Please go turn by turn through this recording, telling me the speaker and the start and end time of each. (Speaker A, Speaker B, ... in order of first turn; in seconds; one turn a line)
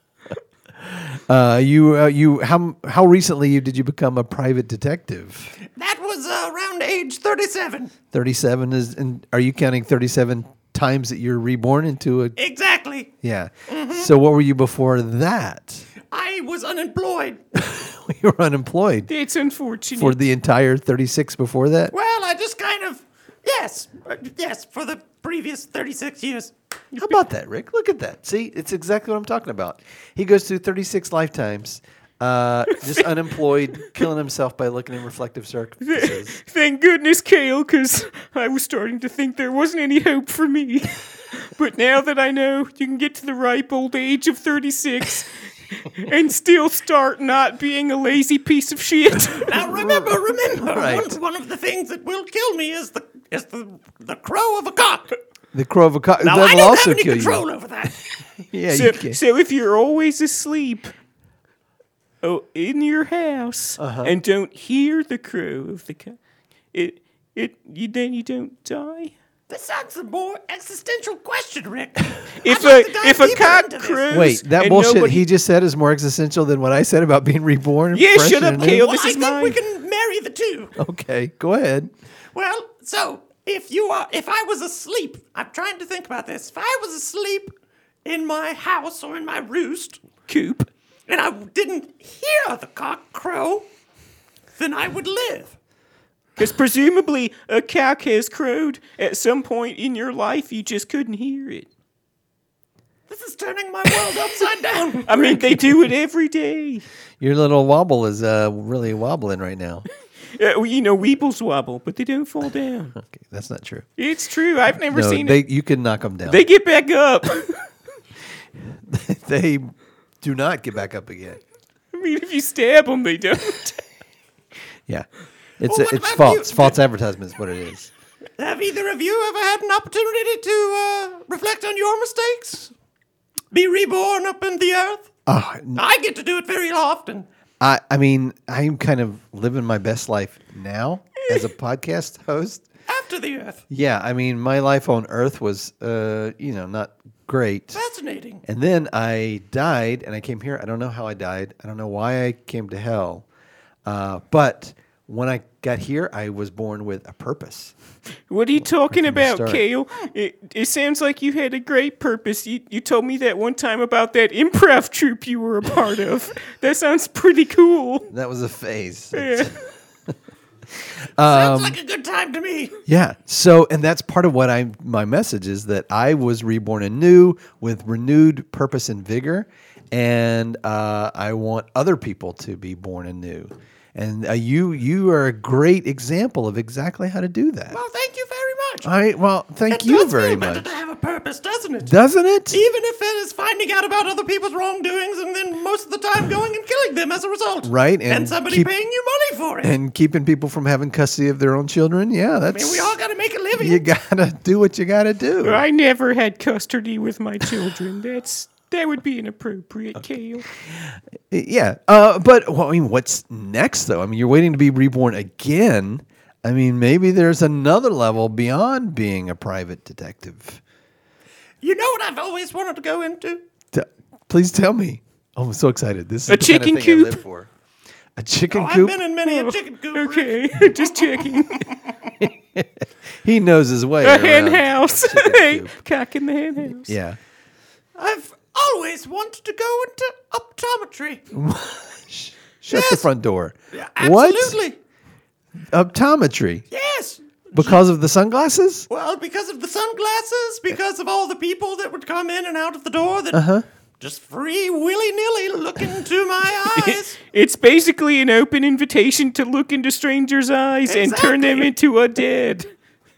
Speaker A: 0.8-5.5
Speaker B: 5.8-7.9
Speaker A: 8.1-12.3
Speaker B: 12.4-13.1
Speaker A: 13.2-15.8
Speaker B: 13.7-14.1
Speaker B: 16.1-17.4
Speaker A: 17.5-19.1
Speaker C: 19.1-20.2
Speaker A: 19.9-21.9
Speaker B: 21.9-26.5
Speaker A: 26.9-36.4
Speaker C: 35.8-49.5
Speaker B: 49.5-55.1
Speaker A: 49.5-51.2
Speaker A: 55.5-57.5
Speaker B: 56.2-58.1
Speaker A: 58.5-59.2
Speaker C: 58.7-60.9
Speaker C: 62.2-66.2
Speaker A: 63.8-64.2
Speaker C: 66.7-69.1
Speaker B: 69.5-74.3
Speaker C: 72.4-75.2
Speaker A: 74.1-78.8
Speaker C: 77.9-79.6
Speaker B: 78.6-80.7
Speaker A: 80.8-81.9
Speaker B: 82.3-87.5
Speaker B: 88.0-90.0
Speaker C: 90.3-90.7
Speaker B: 91.1-93.7
Speaker B: 94.6-95.5
Speaker C: 96.4-101.7
Speaker B: 103.1-105.7
Speaker C: 105.0-106.8
Speaker A: 107.2-109.9
Speaker C: 110.3-113.0
Speaker A: 113.0-113.8
Speaker C: 114.0-115.4
Speaker A: 114.9-116.5
Speaker C: 116.3-117.7
Speaker A: 118.6-121.4
Speaker C: 121.9-123.8
Speaker A: 125.6-127.9
Speaker B: 125.7-126.8
Speaker B: 128.4-132.7
Speaker B: 133.5-135.1
Speaker A: 135.3-135.8
Speaker B: 135.8-137.3
Speaker A: 137.6-142.7
Speaker B: 142.9-143.6
Speaker A: 143.7-147.8
Speaker B: 147.7-148.4
Speaker A: 148.4-153.2
Speaker A: 153.8-157.7
Speaker C: 158.3-168.1
Speaker A: 158.6-159.7
Speaker A: 168.1-169.6
Speaker C: 169.1-169.6
Speaker A: 170.7-171.8
Speaker B: 171.2-172.8
Speaker A: 172.8-187.8
Speaker B: 187.7-188.9
Speaker A: 188.8-190.8
Speaker B: 189.7-191.9
Speaker A: 191.8-192.6
Speaker B: 192.5-199.7
Speaker A: 197.6-198.7
Speaker A: 199.6-202.9
Speaker B: 202.5-203.8
Speaker A: 203.6-205.6
Speaker C: 205.4-210.5
Speaker A: 210.7-220.6
Speaker B: 221.6-223.4
Speaker A: 223.7-227.5
Speaker C: 226.3-227.2
Speaker A: 228.2-229.0
Speaker B: 228.5-231.3
Speaker C: 229.2-231.7
Speaker A: 232.2-235.8
Speaker C: 234.0-236.9
Speaker A: 236.7-237.2
Speaker B: 237.9-241.3
Speaker A: 241.3-244.6
Speaker B: 242.7-243.1
Speaker B: 243.7-244.8
Speaker A: 245.7-246.7
Speaker B: 246.7-247.8
Speaker A: 247.5-248.9
Speaker B: 248.9-253.4
Speaker A: 253.3-253.7
Speaker B: 254.0-257.2
Speaker C: 256.8-262.7
Speaker B: 260.9-261.7